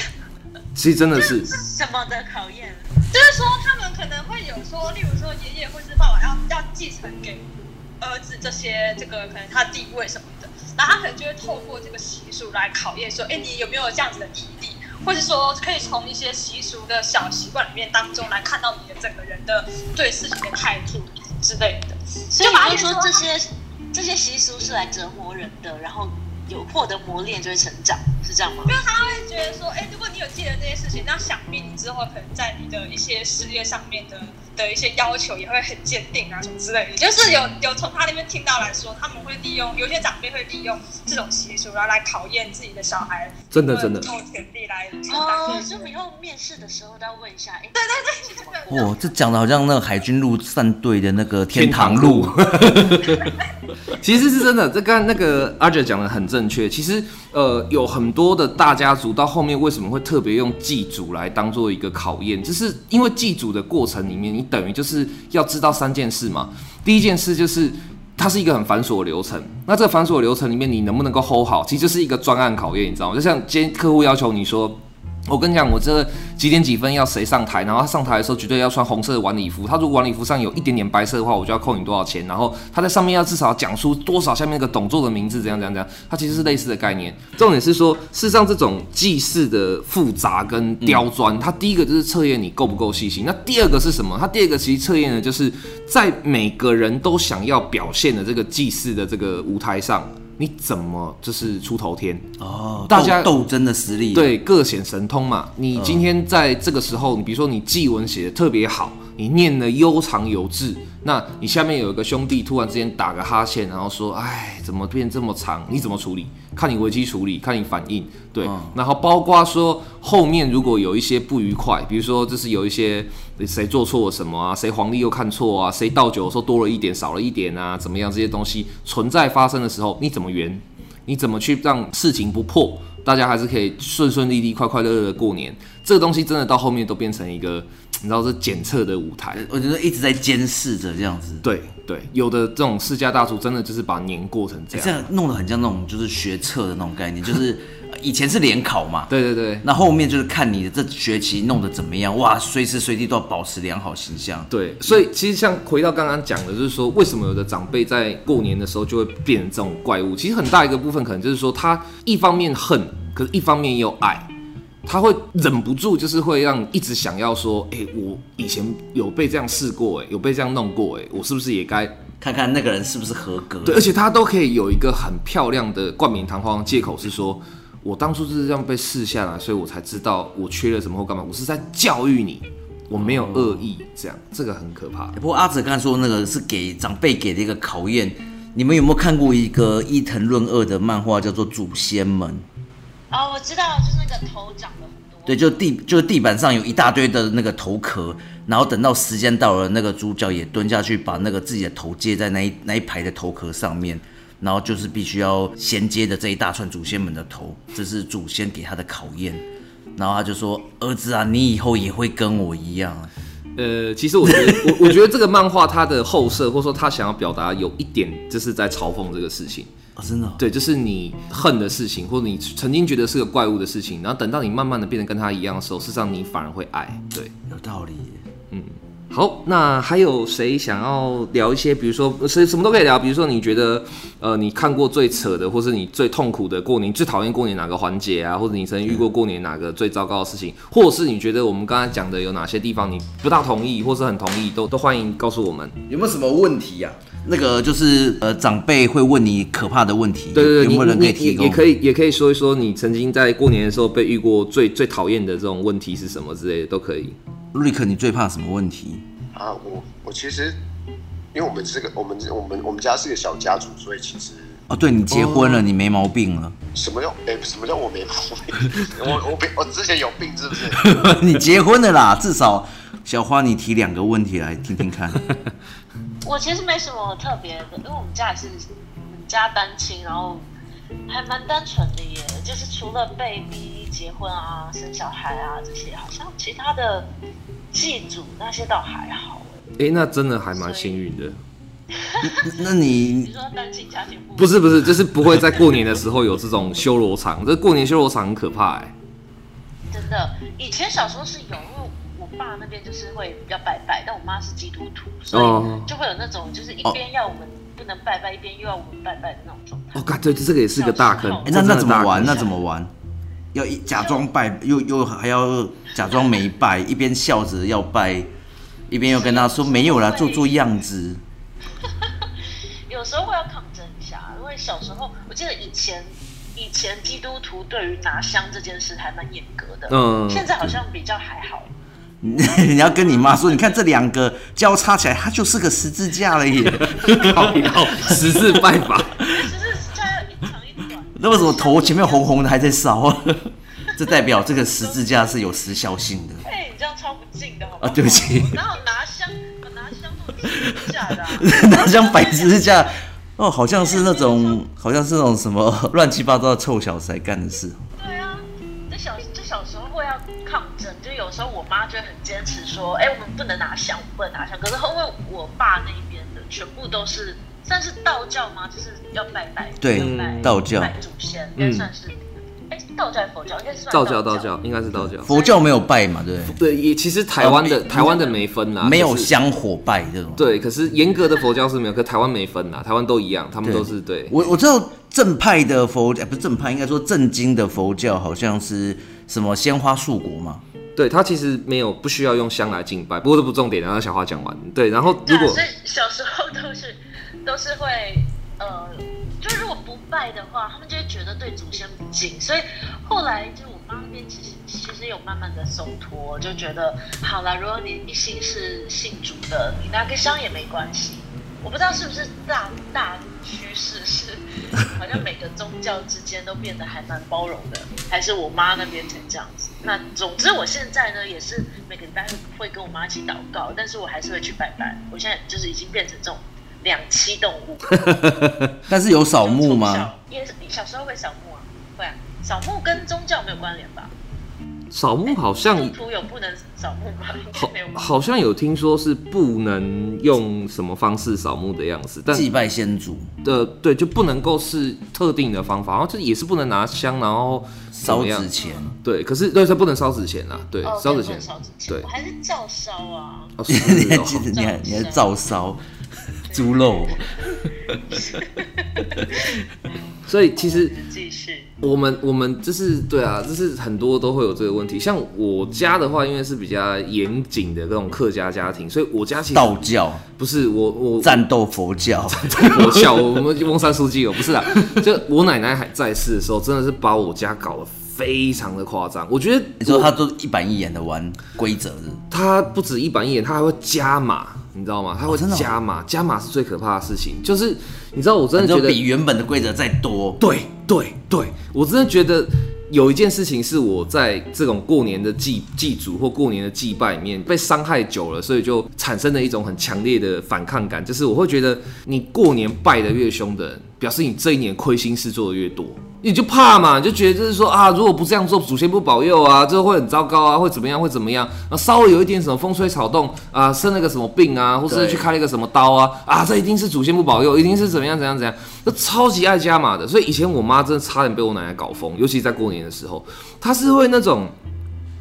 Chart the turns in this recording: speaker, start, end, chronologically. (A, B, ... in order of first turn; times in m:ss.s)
0:00.8-0:01.5 A
0:01.5-0:02.9 B
0:03.1-0:07.5 C
0:08.0-0:23.2 C
0:22.3-0:28.8 B
0:28.6-0:45.9 C
0:43.5-0:44.1 A
0:45.1-0:49.0 B
0:47.8-0:49.0 C
0:48.7-0:53.2 D
0:51.5-0:53.3 A
0:53.9-1:42.3 A
1:42.4-1:44.4 D
1:42.9-1:43.3 A
1:44.1-2:19.4 A
1:45.8-1:46.1 D
1:58.4-1:58.8 D
2:19.3-2:21.4 D
2:21.4-2:25.1 A
2:24.7-2:29.1 D
2:29.1-2:29.6 A
2:29.6-2:34.5 D
2:34.5-2:44.3 A
2:44.8-2:52.0 A
2:52.2-2:53.9 D
2:53.6-3:05.2 A
3:03.0-3:03.7 D
3:05.2-3:12.5 D
3:13.1-3:15.5 B
3:15.3-3:29.4 D
3:30.0-3:33.1 D
3:33.6-3:39.7 A
3:34.2-3:34.9 D
3:40.0-3:40.4 D
3:40.4-3:47.3 A
3:47.5-3:48.2 D
3:48.5-4:05.8 A
4:05.9-4:11.6 D
4:10.3-4:17.2 A
4:17.5-4:19.0 D
4:19.3-4:20.6 E
4:21.3-4:24.6 E
4:24.7-4:26.6 D
4:25.1-4:25.6 A
4:26.8-4:30.9 E
4:30.7-4:35.3 D
4:36.2-4:40.5 B
4:41.1-4:47.1 B
4:47.7-4:49.6 B
4:49.8-4:51.4 A
4:50.5-4:51.0 B
4:51.9-4:52.6 B
4:52.2-4:53.3 D
4:53.2-4:54.9 B
4:54.4-4:58.9 A
4:59.9-5:10.1 B
5:05.3-5:05.9 A
5:10.0-5:12.5 A
5:10.7-5:12.5 B
5:11.4-5:12.9 D
5:13.5-5:18.3 D
5:13.9-5:14.2 B
5:18.9-5:21.2 D
5:19.1-5:20.5 B
5:21.8-5:22.3 B
5:22.9-5:31.7 B
5:29.9-5:30.7 A
5:32.2-5:38.6 D
5:32.5-5:33.6 B
5:36.8-5:39.2 A
5:37.2-5:42.3 B
5:39.2-5:39.5 D
5:41.2-5:46.4 D
5:44.0-5:45.4 B
5:46.4-5:52.9 B
5:47.8-5:48.6 D
5:50.5-5:57.8 D
5:53.8-5:54.6 B
5:58.0-6:14.5 B
6:09.8-6:11.0 D
6:10.0-6:10.6 A
6:11.6-6:11.9 A
6:13.9-6:15.3 A
6:15.0-6:16.6 D
6:15.3-6:15.6 B
6:16.5-6:19.3 A
6:17.4-6:20.5 D
6:20.4-6:24.4 A
6:23.6-6:30.6 D
6:31.0-6:35.6 A
6:35.2-7:08.0 B
7:07.9-7:08.8 A
7:08.9-7:10.1 D
7:09.4-7:14.1 B
7:14.9-7:15.9 A
7:15.3-7:18.0 B
7:17.5-7:22.5 A
7:22.3-7:23.3 D
7:23.4-7:28.5 A
7:27.9-7:28.9 D
7:29.0-7:32.1 A
7:30.8-7:33.6 B
7:33.6-7:34.5 A
7:33.7-7:35.8 D
7:34.5-7:35.3 B
7:36.4-7:37.3 D
7:36.5-7:39.6 B
7:37.9-7:38.2 D
7:40.3-7:40.9 A
7:40.6-7:41.7 B
7:41.8-7:49.7 A
7:49.5-7:50.2 D
7:50.4-7:51.4 A
7:51.2-7:53.3 D
7:52.4-8:00.1 A
7:59.8-8:02.2 D
8:02.3-8:09.0 A
8:05.3-8:05.7 D
8:08.6-8:10.4 D
8:10.4-8:44.5 A
8:34.9-8:35.3 D